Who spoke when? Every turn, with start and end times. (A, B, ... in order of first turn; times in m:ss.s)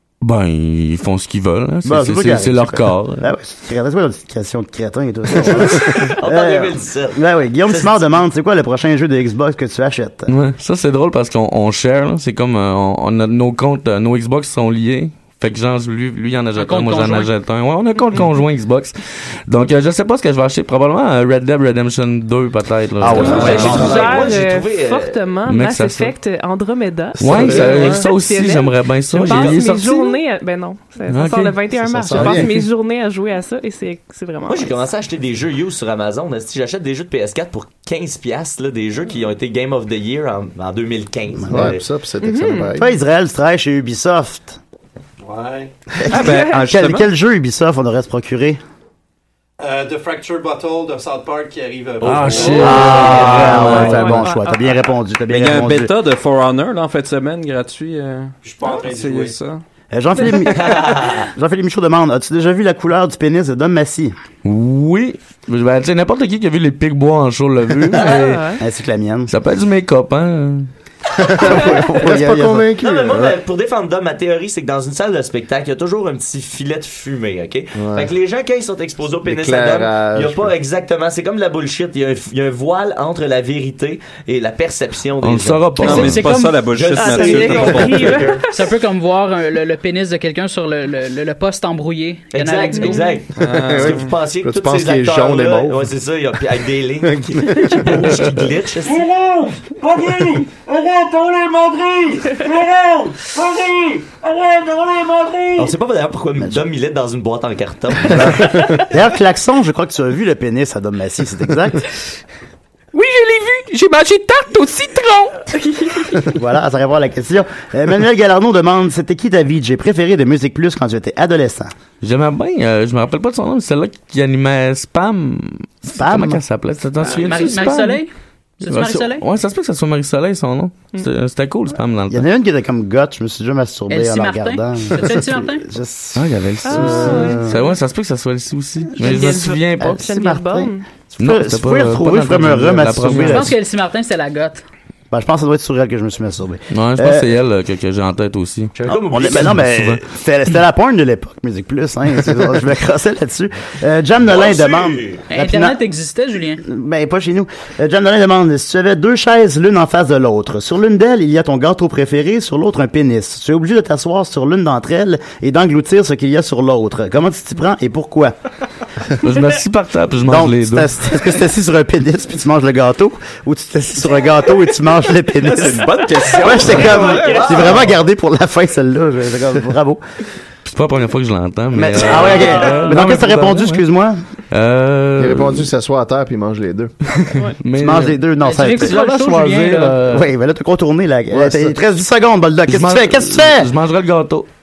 0:00.2-0:03.3 A
0:01.8-0:10.3 B
0:05.4-0:08.2 C
0:10.3-0:23.9 A
0:16.6-0:17.3 D
0:23.0-0:24.1 B
0:23.2-0:34.8 E
0:23.2-0:25.2 C
0:23.2-0:24.1 F
0:23.7-0:24.1 G
0:25.5-0:26.2 A
0:27.2-0:28.0 G
0:27.2-0:30.2 A
0:27.6-0:28.0 F
0:29.2-0:29.6 G
0:31.1-0:31.6 A
0:31.7-0:32.7 G
0:34.5-0:41.8 C
0:41.5-0:43.0 G
0:42.2-0:42.8 E
0:42.8-0:44.6 B
0:45.2-0:45.7 H
0:46.0-0:48.6 B
0:46.1-0:47.1 F
0:46.1-0:46.6 E
0:49.6-0:53.3 H
0:52.0-0:54.3 A
0:52.5-0:55.9 B
0:53.6-0:54.8 E
0:55.3-0:59.6 F
0:58.4-0:59.4 H
0:59.9-1:04.1 B
1:00.2-1:00.6 E
1:00.5-1:01.3 C
1:04.4-1:08.5 A
1:07.9-1:08.6 E
1:08.6-1:09.3 B
1:09.3-1:10.7 A
1:11.2-1:13.4 G
1:11.4-1:12.7 B
1:12.8-1:26.1 C
1:17.8-1:18.1 G
1:19.2-1:20.6 G
1:25.2-1:26.3 A
1:25.8-1:28.1 F
1:25.8-1:26.6 D
1:26.6-1:28.5 C
1:27.0-1:28.6 E
1:27.2-1:33.2 D
1:32.3-1:39.1 C
1:33.4-1:34.1 F
1:33.4-1:35.9 G
1:37.0-1:38.2 G
1:39.2-1:45.1 I
1:45.6-1:48.6 C
1:48.1-1:51.9 B
1:52.9-1:55.5 I
1:55.6-1:56.2 E
1:56.3-2:01.7 B
2:02.0-2:08.0 A
2:05.9-2:06.4 B
2:07.0-2:09.2 D
2:08.6-2:12.3 A
2:12.1-2:17.6 B
2:13.9-2:15.7 D
2:16.2-2:20.1 A
2:16.6-2:17.5 E
2:19.0-2:23.5 B
2:19.0-2:20.9 E
2:21.2-2:23.6 A
2:23.1-2:24.6 D
2:25.1-2:27.3 B
2:26.7-2:28.7 A
2:28.8-2:29.6 C
2:28.9-2:35.8 B
2:29.3-2:30.0 A
2:34.3-2:35.2 C
2:35.3-2:36.6 D
2:36.6-2:48.3 B
2:49.2-2:50.9 A
2:50.2-3:00.0 B
2:55.4-2:57.7 F
2:56.7-2:57.9 C
3:00.7-3:03.8 A
3:01.7-3:04.2 B
3:04.5-3:05.7 A
3:05.2-3:06.9 G
3:07.1-3:08.2 A
3:07.8-3:09.0 B
3:08.4-3:10.0 D
3:08.7-3:10.3 A
3:10.1-3:13.7 B
3:11.3-3:11.7 G
3:12.7-3:14.5 A